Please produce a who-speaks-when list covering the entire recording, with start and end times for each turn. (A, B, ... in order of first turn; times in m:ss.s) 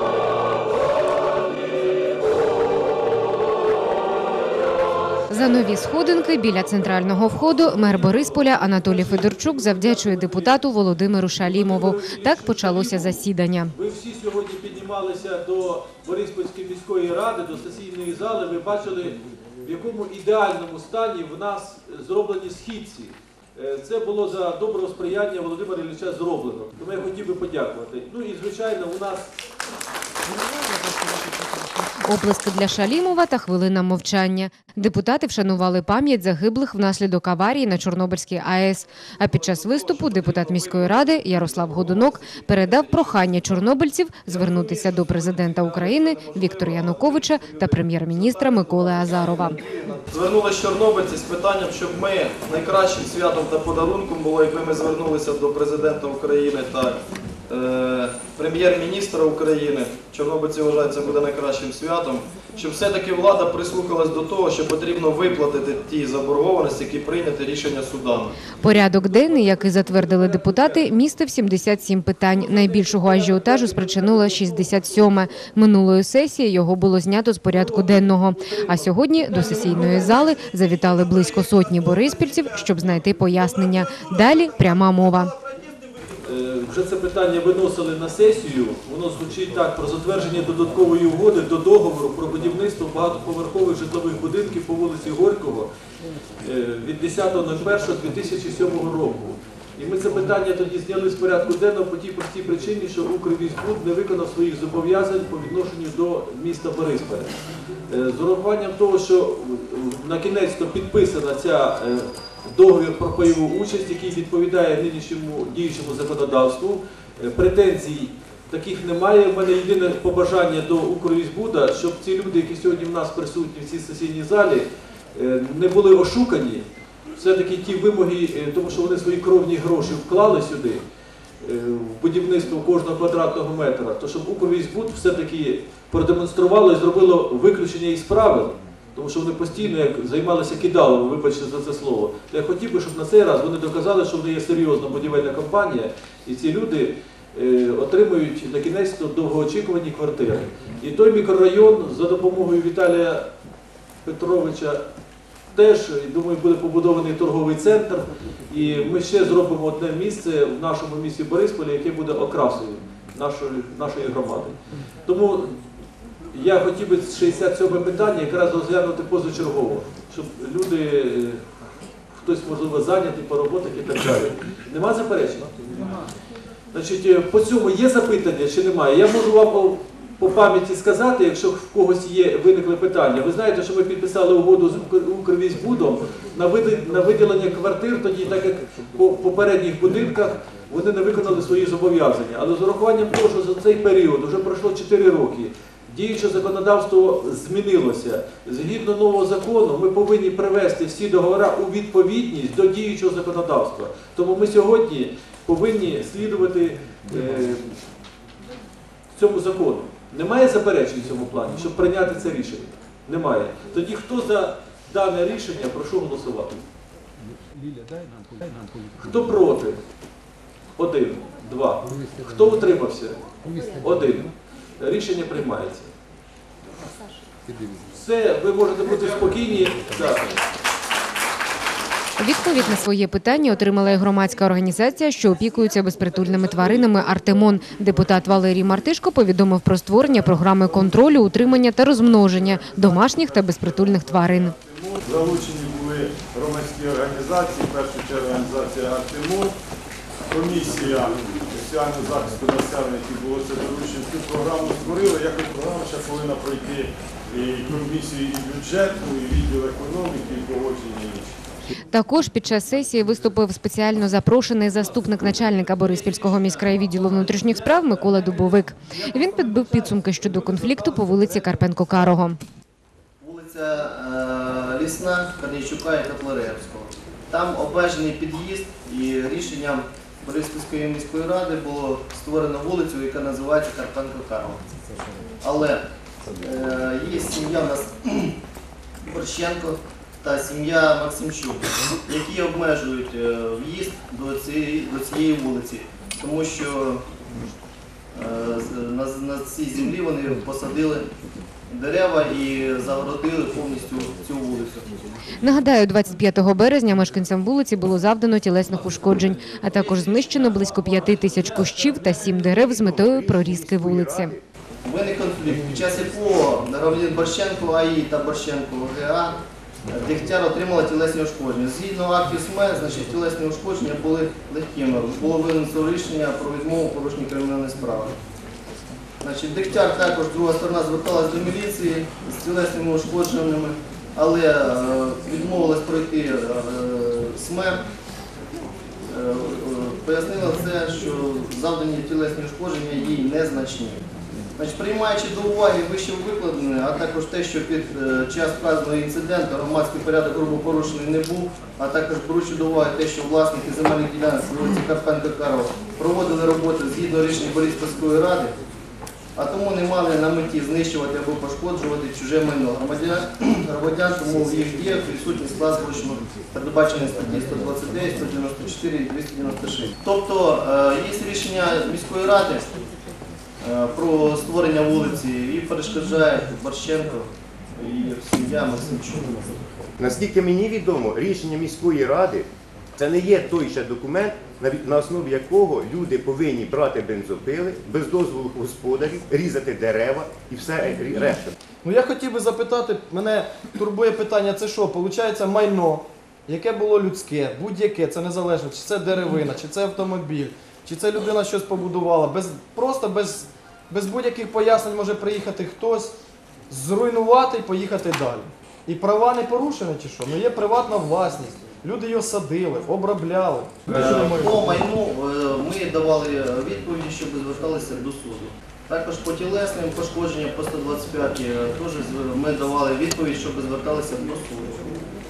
0:05.3-0:13.7 A
0:07.3-0:10.6 B
0:11.4-0:29.3 B
0:32.0-0:49.6 A
0:39.3-0:41.7 B
0:46.1-0:47.6 C
0:48.6-0:57.0 C
0:57.5-1:08.4 C
1:08.5-1:25.3 A
1:09.0-1:10.9 B
1:12.3-1:15.4 B
1:17.5-1:20.3 B
1:26.2-1:35.7 B
1:36.4-1:47.3 B
1:47.9-2:06.6 B
2:07.2-2:10.8 B
2:11.4-2:33.2 B
2:34.0-2:34.8 B
2:35.5-2:45.5 B
2:46.3-2:51.4 B
2:52.1-2:55.5 B
2:56.7-3:27.8 B
3:29.1-3:36.6 B
3:39.0-3:39.8 B
3:40.8-3:43.2 B
3:43.8-3:45.9 B
3:47.9-3:50.3 B
3:52.2-4:04.6 A
4:02.1-4:09.5 D
4:10.3-4:21.2 D
4:21.9-4:32.4 A
4:24.7-4:28.2 B
4:28.9-4:31.4 C
4:33.2-4:44.6 E
4:45.4-4:45.8 E
4:46.4-4:48.4 E
4:49.0-4:57.0 E
4:58.1-5:01.1 E
5:01.7-5:04.9 E
5:05.4-5:14.3 A
5:12.9-5:14.4 F
5:14.8-5:19.4 E
5:19.9-5:28.2 E
5:29.2-5:37.8 E
5:39.1-5:44.0 E
5:44.6-5:58.5 E
5:59.4-6:12.7 E
6:13.6-6:19.3 E
6:20.0-6:31.5 F
6:31.8-6:46.1 C
6:46.7-6:53.8 C
6:53.9-7:04.9 E